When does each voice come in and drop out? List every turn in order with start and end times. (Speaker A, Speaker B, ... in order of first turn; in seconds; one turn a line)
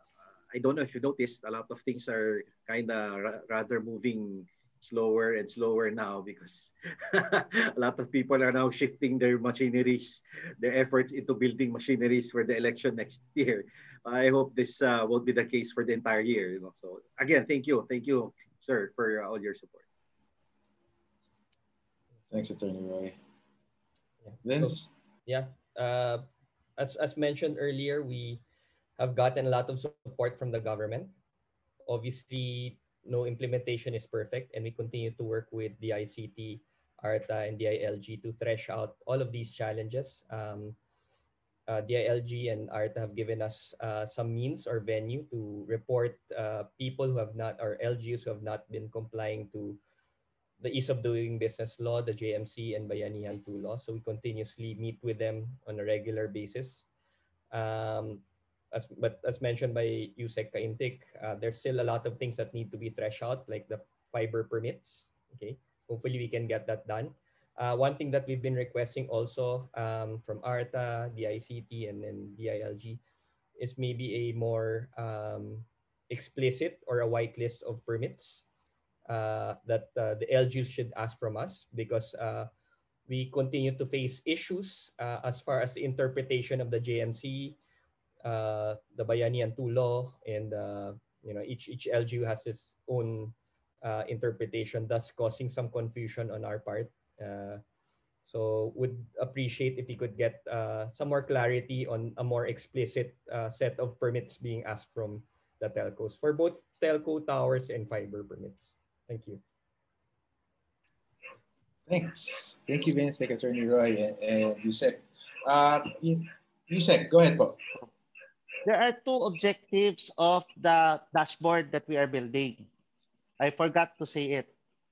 Speaker A: 0.5-19.8
Speaker B: 22.3-23.1
Speaker C: 24.3-26.2
Speaker B: 24.4-24.9
Speaker C: 26.8-28.4
Speaker C: 29.0-31.1
Speaker C: 31.9-40.8
Speaker C: 41.7-49.8
Speaker C: 50.6-56.9
Speaker C: 57.5-73.0
Speaker C: 73.6-78.4
Speaker C: 79.1-82.5
Speaker C: 83.1-87.6
Speaker C: 88.2-97.6
Speaker C: 98.3-109.4
Speaker B: 111.9-117.6
Speaker D: 118.6-122.6
Speaker D: 123.4-124.5